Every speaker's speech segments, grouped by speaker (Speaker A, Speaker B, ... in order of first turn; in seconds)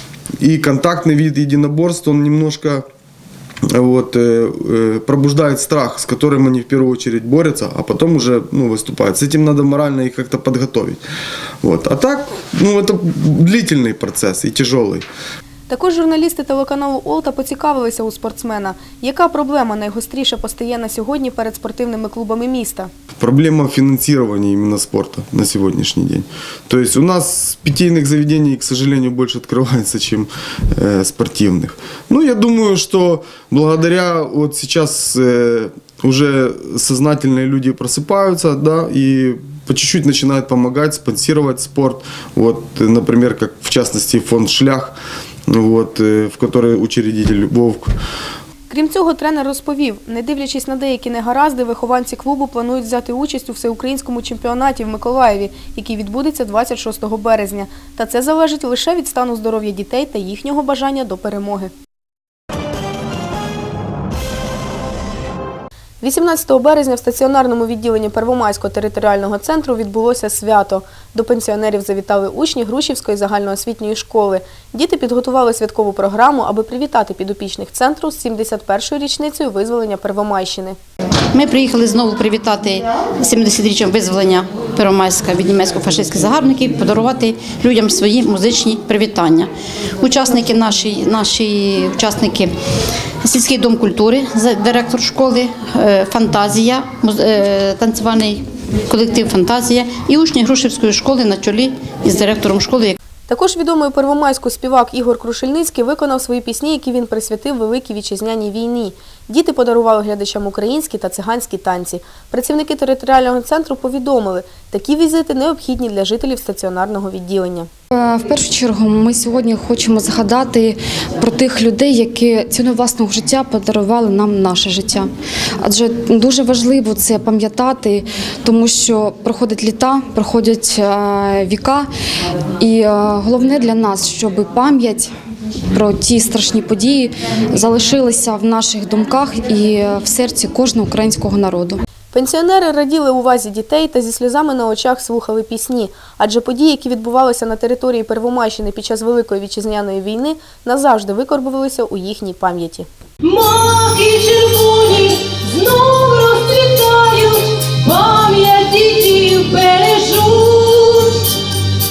Speaker A: 0.4-2.8, 3.7-11.0, 11.6-15.1, 23.2-45.0, 45.5-47.9
Speaker B: 15.7-22.9, 48.7-61.7, 66.0-80.8, 103.3-117.7, 142.1-152.9
Speaker C: 81.3-92.5, 93.2-103.0
Speaker D: 118.0-125.1, 125.6-131.9, 132.6-135.1, 135.7-141.8
Speaker E: 153.2-161.3